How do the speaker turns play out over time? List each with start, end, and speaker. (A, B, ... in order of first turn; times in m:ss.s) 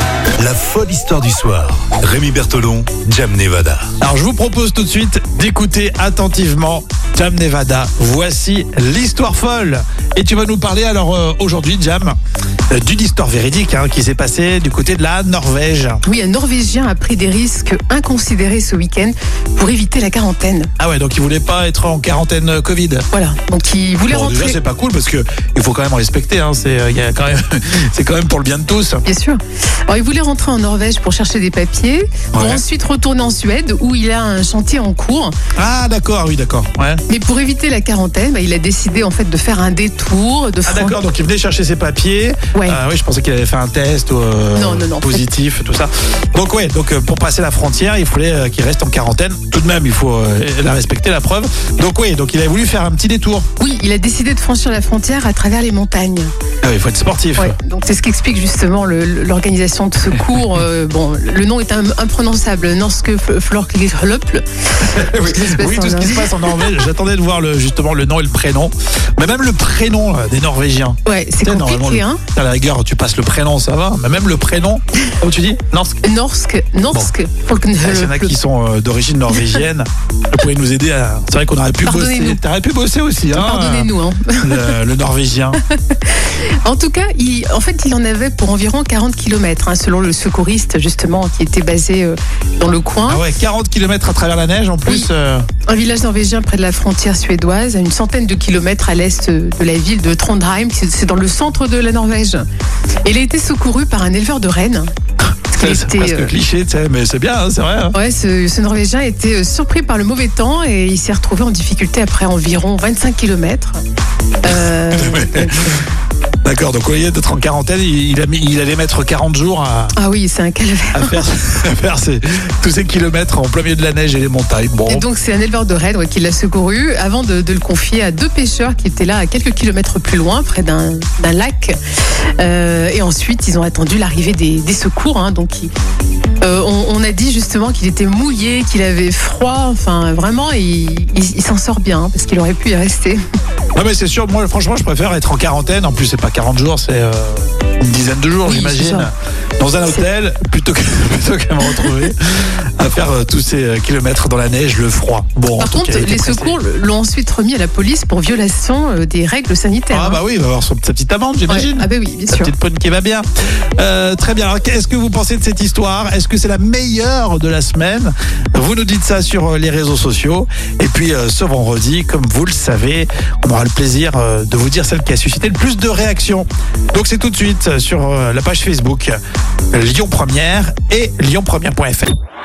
0:00.4-0:03.9 A
0:04.0-0:12.2 B
0:12.7-0:16.0 B
0:16.0-0:20.7 C
0:20.8-0:23.1 B
0:23.1-0:24.6 C
0:24.1-0:29.0 B
0:29.1-0:35.4 C
0:32.3-0:32.6 B
0:35.6-0:37.0 B
0:37.1-0:41.0 C
0:40.7-0:53.5 B
0:44.6-0:45.2 C
0:53.6-0:56.3 C
0:56.6-0:57.6 B
0:57.4-1:06.7 C
1:04.8-1:16.0 B
1:11.1-1:12.2 C
1:16.0-1:18.3 C
1:17.8-1:23.9 B
1:21.8-1:22.4 C
1:23.3-1:24.8 C
1:24.4-1:25.6 B
1:25.7-1:33.2 C
1:33.1-1:35.5 B
1:35.7-1:42.4 C
1:43.0-1:44.9 C
1:45.5-1:48.0 B
1:45.5-1:46.3 C
1:47.9-1:53.8 C
1:54.4-1:55.8 C
1:54.5-1:55.8 B
1:56.4-2:00.0 B
2:00.0-2:01.2 C
2:00.9-2:05.0 B
2:04.9-2:11.8 C
2:12.4-2:15.7 C
2:16.4-2:23.2 C
2:23.8-2:36.6 B
2:28.4-2:29.1 C
2:35.6-2:40.2 C
2:39.9-2:43.3 B
2:41.5-2:42.5 C
2:43.8-2:59.2 B
2:59.7-3:02.1 B